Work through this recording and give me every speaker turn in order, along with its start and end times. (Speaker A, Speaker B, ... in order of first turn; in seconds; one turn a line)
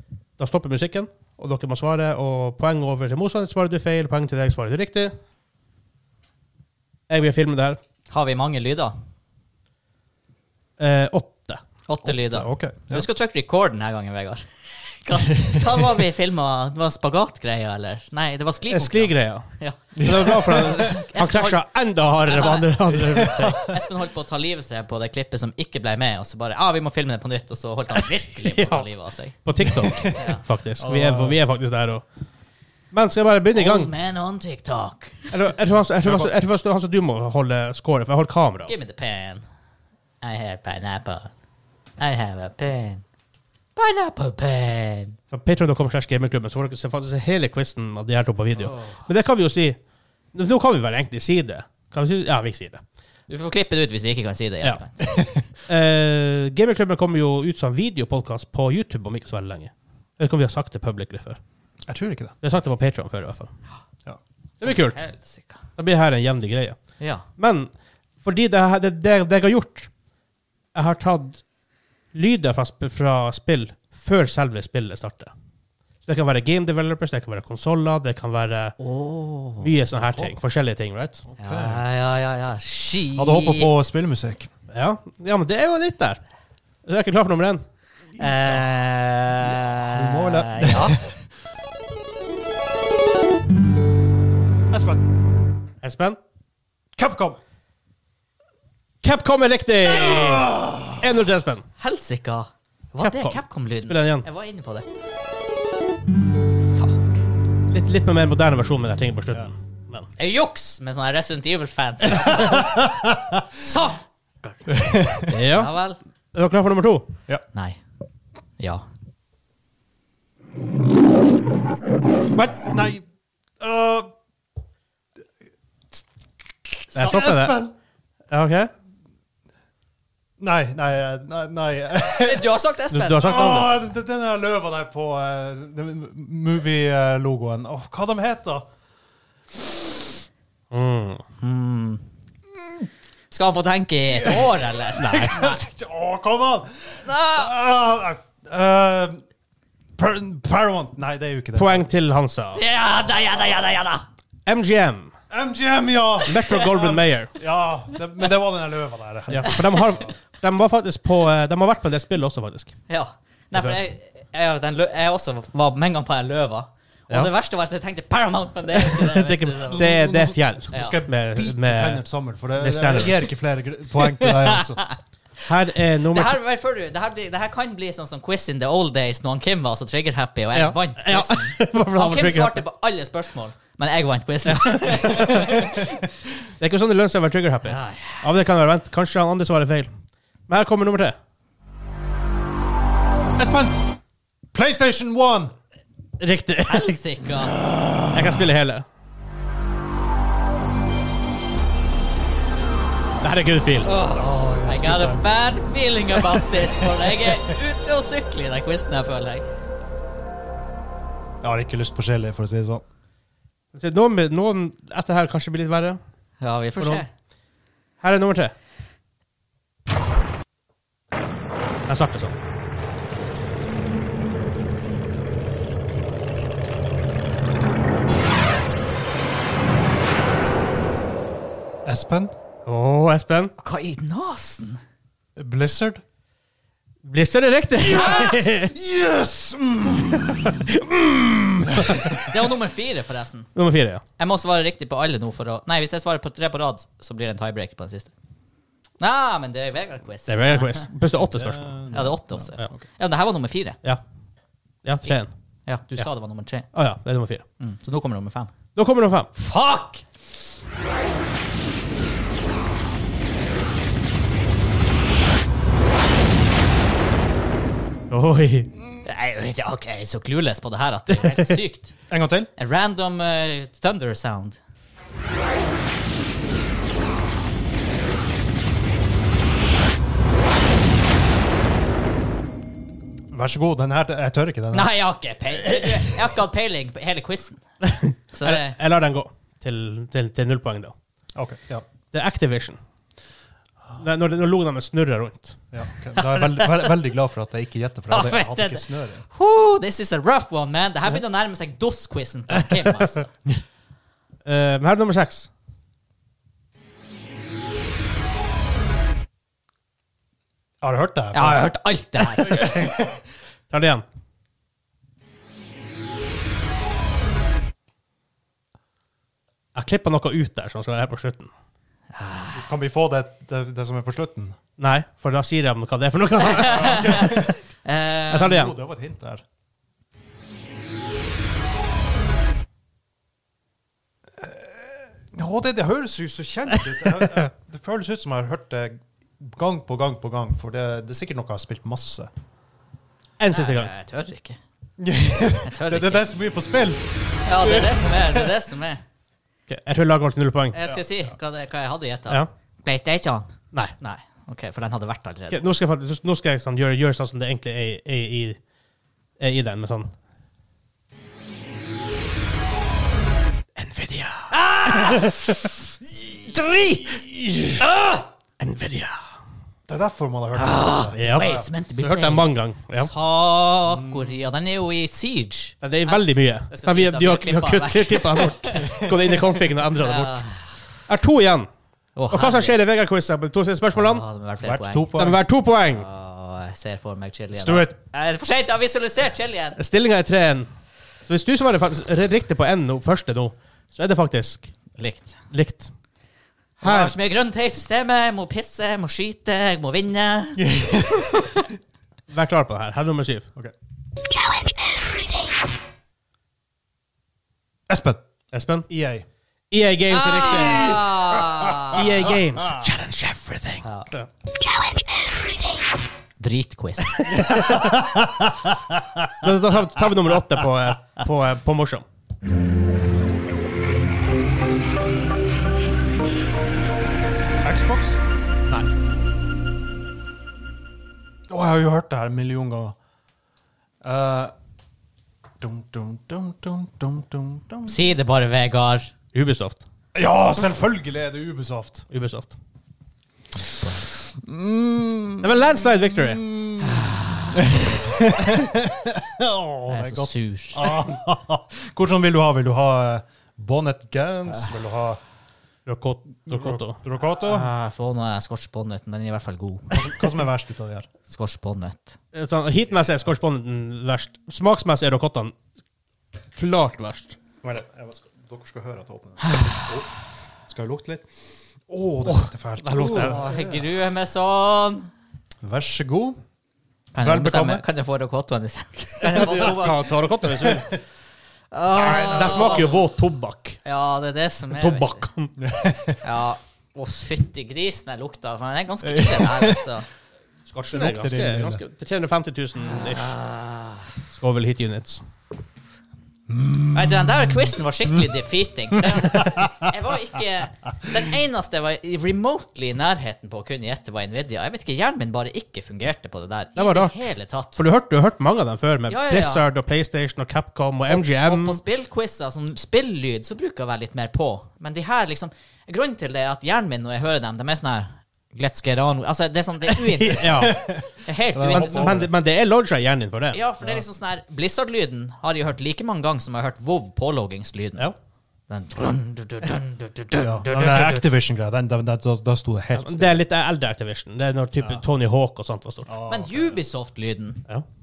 Speaker A: 0.4-5.1
Speaker A: 7.1-7.8
Speaker B: 8.1-8.9
Speaker A: 10.8-11.6
Speaker B: 11.9-21.6
Speaker C: 12.0-13.1
Speaker A: 18.7-23.7
Speaker C: 20.0-20.9
Speaker B: 22.2-22.7
Speaker C: 22.9-23.7
Speaker B: 23.6-29.4
Speaker A: 28.3-28.9
Speaker A: 29.4-32.0
Speaker B: 30.1-30.4
Speaker C: 30.8-31.4
Speaker A: 32.9-33.9
Speaker B: 33.5-35.5
Speaker A: 35.3-38.7
Speaker C: 36.0-36.3
Speaker B: 38.6-39.4
Speaker B: 40.2-41.3
Speaker B: 42.0-43.0
Speaker B: 43.8-45.2
Speaker A: 45.3-49.8
Speaker B: 48.6-49.0
Speaker A: 50.3-52.8
Speaker B: 53.3-55.0
Speaker C: 55.1-55.5
Speaker A: 55.6-61.4
Speaker C: 61.9-62.3
Speaker A: 62.4-63.5
Speaker A: 64.6-65.0
Speaker B: 64.6-65.6
Speaker A: 65.8-67.7
Speaker B: 67.0-67.2
Speaker A: 68.2-69.9
Speaker A: 70.7-71.4
Speaker A: 72.1-75.3
Speaker A: 76.0-78.8
Speaker B: 78.8-79.7
Speaker A: 79.6-81.2
Speaker C: 79.9-80.3
Speaker C: 81.2-81.8
Speaker B: 81.4-83.7
Speaker C: 83.1-84.5
Speaker A: 84.7-86.2
Speaker A: 86.8-87.6
Speaker B: 88.2-91.0
Speaker C: 88.2-88.6
Speaker C: 89.4-91.2
Speaker C: 94.7-95.0
Speaker A: 95.8-96.2
Speaker C: 97.0-97.4
Speaker A: 99.0-101.6
Speaker C: 99.9-101.0
Speaker B: 101.8-104.8
Speaker A: 103.0-104.2
Speaker B: 106.8-107.1
Speaker A: 107.7-110.1
Speaker B: 110.2-112.7
Speaker C: 112.3-113.4
Speaker B: 113.5-116.0
Speaker C: 114.7-115.3
Speaker A: 115.3-115.7
Speaker A: 116.3-117.1
Speaker B: 117.5-117.8
Speaker B: 118.6-118.8
Speaker C: 122.2-123.0
Speaker C: 123.6-124.1
Speaker C: 126.6-127.7
Speaker A: 126.9-127.6
Speaker A: 128.3-128.7
Speaker C: 130.4-132.5
Speaker B: 132.1-133.5
Speaker A: 132.9-133.8
Speaker C: 133.2-138.7
Speaker A: 140.7-141.2
Speaker B: 141.4-142.0
Speaker B: 143.3-145.5
Speaker C: 144.1-149.2
Speaker A: 145.0-145.4
Speaker B: 147.0-147.5
Speaker C: 149.9-151.9
Speaker A: 151.5-152.6
Speaker B: 152.5-154.1
Speaker A: 154.4-155.1
Speaker C: 155.3-159.8
Speaker A: 156.2-157.3
Speaker A: 159.3-162.8
Speaker B: 159.4-159.8
Speaker B: 162.9-169.9
Speaker A: 168.8-172.0
Speaker C: 169.7-174.8
Speaker B: 170.7-171.0
Speaker A: 172.6-173.2
Speaker B: 174.2-175.0
Speaker A: 175.4-176.3
Speaker B: 176.1-186.0
Speaker A: 180.5-182.6
Speaker A: 184.6-185.6
Speaker C: 185.0-185.5
Speaker A: 186.6-189.9
Speaker B: 187.7-188.3
Speaker A: 190.5-191.2
Speaker C: 193.3-193.9
Speaker C: 194.5-195.5
Speaker A: 196.2-197.0
Speaker B: 196.7-197.6
Speaker A: 198.0-198.8
Speaker A: 203.2-204.0
Speaker B: 203.8-209.5
Speaker C: 204.1-205.3
Speaker C: 206.2-207.4
Speaker C: 211.4-212.8
Speaker A: 213.7-216.0
Speaker B: 216.4-217.1
Speaker A: 216.8-217.0
Speaker A: 218.0-218.5
Speaker A: 221.9-222.3
Speaker C: 231.8-232.3
Speaker A: 232.7-233.5
Speaker B: 233.6-234.8
Speaker C: 235.3-236.0
Speaker A: 237.0-238.7
Speaker C: 237.9-240.7
Speaker A: 240.7-242.2
Speaker C: 241.6-242.3
Speaker B: 242.1-243.5
Speaker A: 243.5-244.0
Speaker B: 244.2-248.1
Speaker B: 249.0-250.9
Speaker A: 250.2-251.8
Speaker C: 251.2-252.8
Speaker B: 251.9-253.8
Speaker A: 254.8-255.3
Speaker B: 255.7-256.7
Speaker A: 256.7-257.4
Speaker B: 257.6-258.5
Speaker A: 258.7-259.3
Speaker B: 259.3-260.0
Speaker A: 268.1-268.7
Speaker B: 269.0-271.9
Speaker C: 272.1-272.5
Speaker B: 272.6-274.6
Speaker C: 283.3-284.9
Speaker B: 284.7-287.6
Speaker A: 287.8-290.9
Speaker B: 288.3-288.8
Speaker C: 291.3-291.9
Speaker A: 292.1-292.8
Speaker A: 293.9-295.6
Speaker C: 295.7-299.2
Speaker B: 296.3-296.8
Speaker B: 298.1-303.3
Speaker A: 302.6-303.2
Speaker A: 304.4-305.5
Speaker C: 310.8-311.7
Speaker B: 311.3-312.7
Speaker C: 312.4-313.2
Speaker A: 313.7-314.0
Speaker A: 319.7-321.5
Speaker B: 322.1-322.6
Speaker C: 322.5-324.6
Speaker A: 324.8-327.4
Speaker B: 326.4-328.6
Speaker C: 326.6-327.5
Speaker A: 328.3-328.7
Speaker C: 328.4-329.4
Speaker C: 334.4-342.3
Speaker A: 343.4-343.9
Speaker B: 343.5-344.6
Speaker C: 345.0-348.5
Speaker B: 345.6-346.2
Speaker B: 347.4-349.0
Speaker A: 349.7-350.8
Speaker B: 350.7-355.6
Speaker A: 355.5-358.6
Speaker A: 359.4-360.1
Speaker A: 363.8-365.6
Speaker B: 364.5-365.5
Speaker A: 366.7-369.3
Speaker C: 369.9-371.6
Speaker B: 370.5-379.0
Speaker A: 371.1-373.1
Speaker A: 375.8-380.4
Speaker C: 378.8-379.3
Speaker B: 380.0-380.8
Speaker A: 381.1-381.7
Speaker B: 382.1-382.8
Speaker A: 382.3-384.2
Speaker B: 383.9-385.1
Speaker C: 384.6-385.4
Speaker A: 385.1-386.1
Speaker B: 385.9-389.8
Speaker C: 387.5-387.9
Speaker A: 389.8-390.7
Speaker A: 391.2-394.7
Speaker B: 395.0-395.4
Speaker A: 395.5-395.9
Speaker B: 396.8-401.6
Speaker A: 396.8-397.1
Speaker C: 400.6-401.6
Speaker A: 402.3-403.5
Speaker B: 404.3-405.7
Speaker C: 407.9-408.2
Speaker A: 408.5-408.9
Speaker C: 408.9-409.3
Speaker A: 409.7-411.3
Speaker B: 410.1-412.0
Speaker C: 410.5-411.0
Speaker C: 411.6-412.8
Speaker A: 411.8-414.3
Speaker B: 413.8-417.4
Speaker A: 417.2-417.9
Speaker C: 417.3-419.5
Speaker A: 419.4-422.0
Speaker C: 427.6-428.2
Speaker C: 431.5-432.9
Speaker C: 434.0-434.5
Speaker C: 435.6-438.1
Speaker B: 437.9-439.1
Speaker A: 439.3-439.8
Speaker C: 440.1-442.1
Speaker A: 442.1-442.6
Speaker B: 443.6-444.1
Speaker C: 444.3-455.2
Speaker A: 445.4-446.4
Speaker B: 446.9-447.6
Speaker B: 449.9-450.9
Speaker A: 455.9-457.0
Speaker C: 456.5-457.7
Speaker B: 457.4-460.3
Speaker C: 459.9-461.1
Speaker B: 461.3-462.1
Speaker A: 462.3-465.5
Speaker A: 466.5-467.4
Speaker C: 467.6-473.7
Speaker B: 469.5-469.9
Speaker A: 472.2-473.4
Speaker B: 473.1-475.1
Speaker C: 475.6-476.4
Speaker B: 477.1-480.1
Speaker C: 477.2-477.8
Speaker C: 479.3-479.7
Speaker A: 479.3-480.9
Speaker C: 480.4-481.0
Speaker B: 481.7-483.0
Speaker C: 481.9-482.9
Speaker A: 482.0-483.8
Speaker B: 483.8-485.2
Speaker A: 484.7-485.6
Speaker C: 485.6-486.2
Speaker B: 486.2-490.1
Speaker C: 489.0-489.9
Speaker A: 490.7-493.4
Speaker C: 490.9-491.8
Speaker B: 492.8-494.1
Speaker A: 494.3-495.2
Speaker C: 496.5-497.5
Speaker B: 496.9-507.8
Speaker C: 499.1-499.8
Speaker A: 506.8-507.2
Speaker A: 507.8-511.8
Speaker B: 509.1-509.6
Speaker B: 511.1-522.2
Speaker A: 520.2-520.8
Speaker C: 520.4-522.3
Speaker A: 521.6-523.6
Speaker B: 523.5-528.1
Speaker B: 528.7-531.2
Speaker C: 530.4-533.4
Speaker A: 532.9-536.1
Speaker C: 536.1-536.8
Speaker B: 536.2-537.6